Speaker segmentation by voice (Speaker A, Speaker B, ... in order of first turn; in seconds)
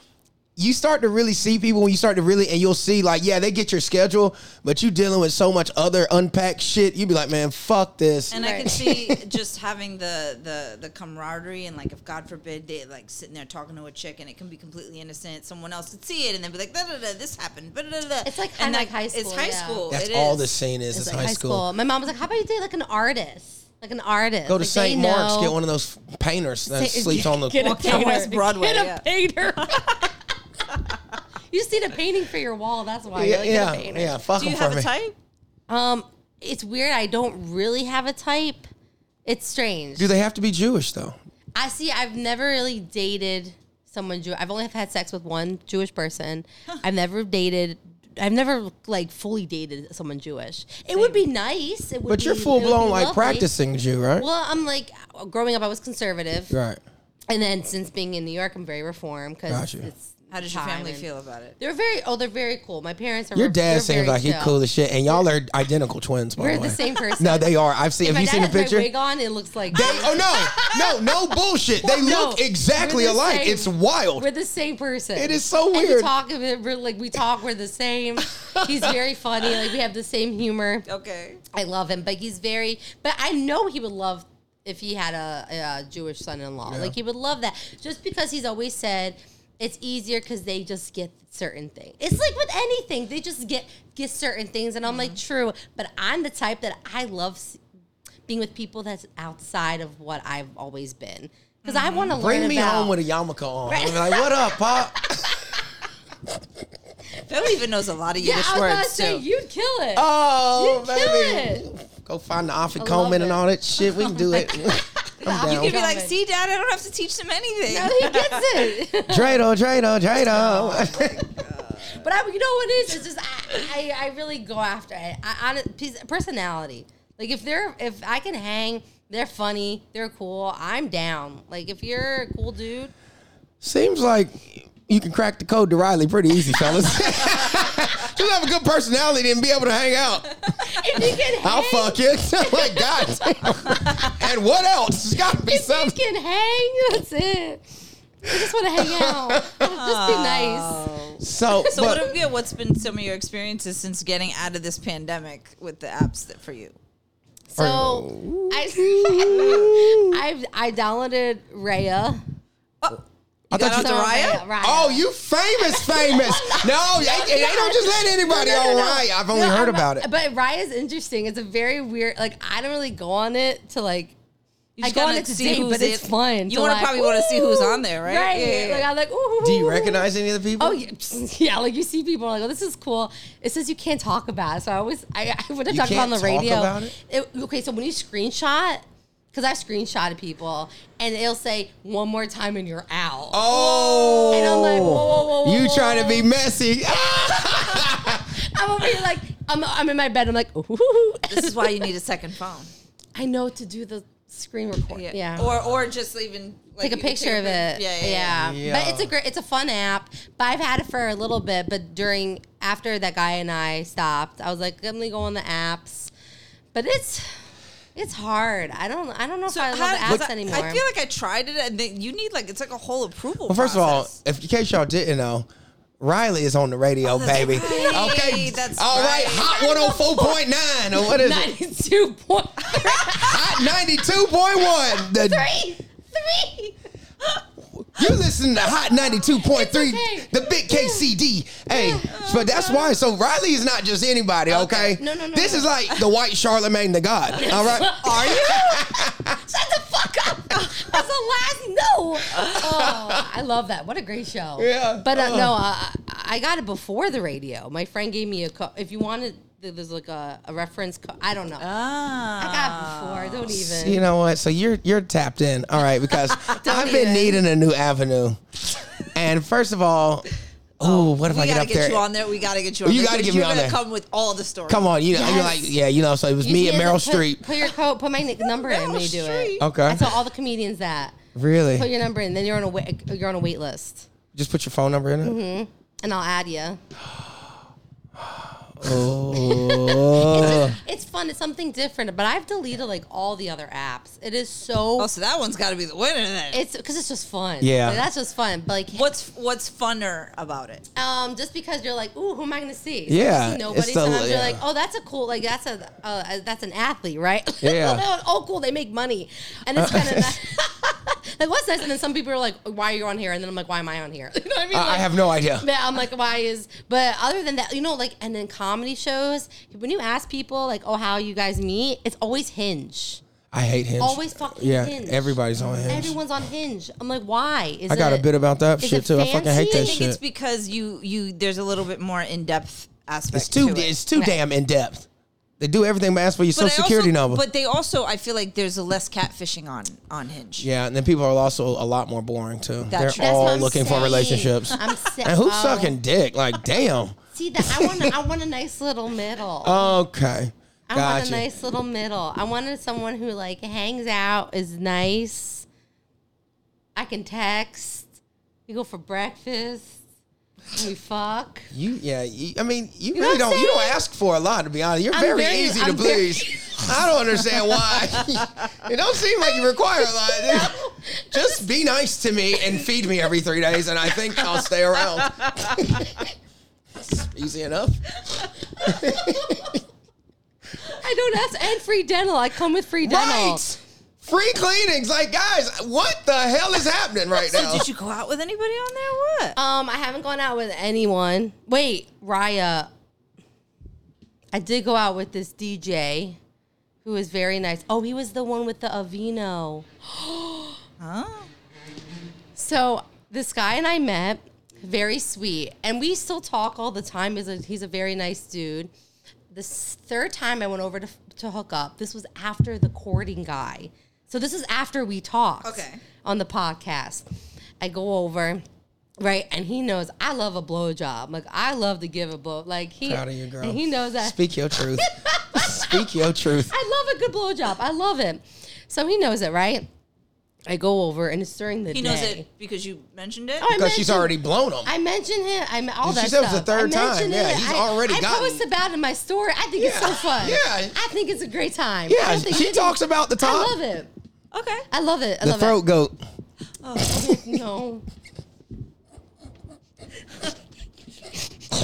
Speaker A: 0.6-9.2, 19.9-21.6, 24.5-28.1, 33.1-34.9, 40.0-41.2, 52.1-54.3, 56.5-56.8, 59.5-59.9, 63.4-68.9, 69.7-74.3, 75.2-76.1, 78.4-78.9, 86.7-86.9, 102.1-105.4, 110.0-115.8, 119.1-121.2, 133.6-140.4, 141.2-146.0, 148.8-149.6, 151.2-152.0, 157.6-160.2, 163.5-163.9, 164.6-170.1, 179.4-180.8, 185.7-187.0, 193.3-198.3, 208.3-209.1, 223.5-225.5, 226.0-231.5, 233.1-235.5, 237.8-249.3, 252.3-253.2, 254.6-255.6, 263.5-268.4, 269.1-270.3, 270.8-272.0, 272.8-273.8, 274.7-277.5, 279.6-280.1, 281.4-281.9, 284.3-285.4, 288.2-290.8, 297.6-298.1, 303.1-304.6, 307.6-308.0, 309.8-310.3, 314.7-315.7, 323.5-326.2, 327.9-330.2, 333.3-335.1, 335.6-337.4, 340.6-348.1, 349.6-351.4, 361.7-376.1, 377.0-378.2, 378.8-379.8, 383.0-387.9, 423.1-426.7, 433.7-434.9, 436.0-438.6, 439.8-441.0, 442.1-443.7, 445.4-446.2
Speaker B: 8.3-20.5, 27.5-30.1, 34.4-35.1, 50.9-51.2, 60.3-61.6, 69.7-70.2, 80.9-81.4, 94.8-95.2, 101.6-102.2, 107.3-109.2, 115.3-118.7, 120.3-122.0, 143.8-144.0, 149.6-156.8, 162.8-164.4, 174.8-178.9, 201.3-202.7, 204.9-208.4, 219.5-224.1, 227.0-229.6, 232.7-233.1, 242.1-243.0, 244.5-244.9, 247.5-248.8, 261.6-263.5, 270.8-274.9, 278.4-279.6, 295.0-296.6, 298.9-300.9, 325.6-325.9, 329.7-333.9, 336.6-340.7, 342.9-343.9, 387.4-389.6, 401.0-401.5, 415.6-416.0, 431.9-433.7, 444.5-444.9, 446.8-447.1
Speaker C: 8.3-8.7, 18.2-19.9, 20.9-25.6, 26.7-30.1, 31.5-34.2, 35.7-38.6, 39.3-40.1, 41.5-53.5, 54.2-56.5, 57.3-61.0, 61.6-64.6, 66.4-71.1, 71.8-80.9, 81.5-97.6, 98.3-103.0, 103.7-105.3, 108.2-111.7, 112.8-113.4, 114.3-114.6, 115.2-116.2, 117.7-119.4, 120.3-132.9, 140.7-144.1, 145.3-147.6, 148.2-150.8, 151.5-152.2, 157.5-162.2, 163.5-165.1, 165.6-174.1, 174.8-180.1, 180.6-196.3, 197.2-201.9, 203.2-205.5, 206.8-216.1, 216.7-217.3, 217.9-220.8, 227.4-228.2, 229.5-233.7, 234.8-236.8, 238.9-241.1, 241.7-242.1, 244.6-245.7, 247.3-261.6, 262.4-264.0, 266.1-267.4, 275.1-275.8, 276.4-281.2, 281.8-284.1, 285.2-286.8, 289.3-295.1, 296.5-299.1, 301.0-323.2, 324.0-325.3, 325.9-328.3, 328.8-330.0, 343.2-346.0, 347.3-349.9, 350.9-355.7, 357.0-358.1, 358.7-360.0, 360.7-361.7, 363.1-364.0, 365.1-366.9, 369.6-371.6, 378.8-379.6, 380.9-383.6, 389.6-392.9, 394.5-396.4, 397.0-400.8, 402.6-408.9, 409.5-417.2, 417.8-418.6, 419.2-424.4, 425.0-429.9, 430.7-432.4, 433.6-444.1, 444.9-445.8, 447.1-448.1